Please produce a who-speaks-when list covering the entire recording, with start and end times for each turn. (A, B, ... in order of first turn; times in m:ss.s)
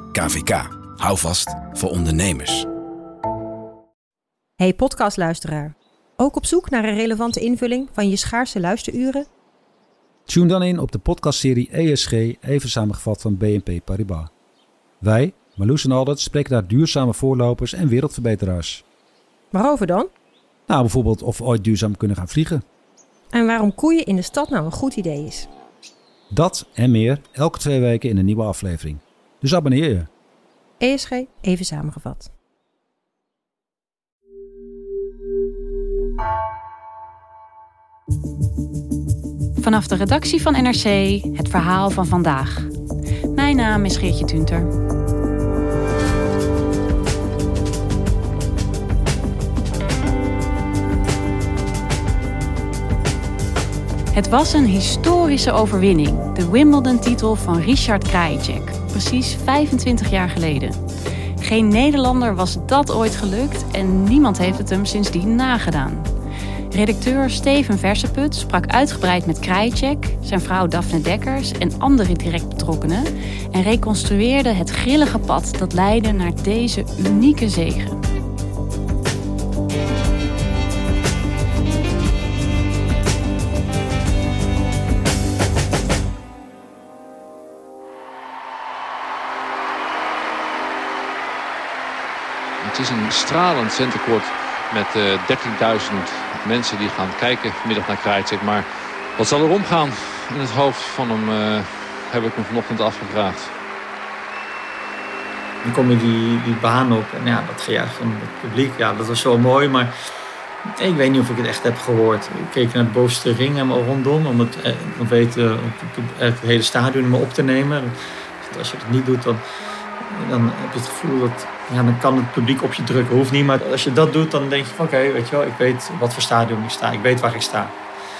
0:00.1-0:02.6 A
0:04.6-0:09.3 B
0:10.3-0:14.3 C
0:15.0-0:18.8 C
0:19.5-0:20.1 B
0:20.7-0:22.6 C
0:23.3-0:25.5 B
0:26.3-0:30.1 C
0:30.8-0:32.3 B
0:39.6-0:42.7 D
0:43.3-0:44.7 D
0:54.1-1:00.8 D
1:01.4-1:06.1 D
1:06.7-1:18.0 D
1:32.6-1:43.6 E
1:45.6-1:49.9 F
1:50.8-1:59.4 F
2:00.1-2:07.7 F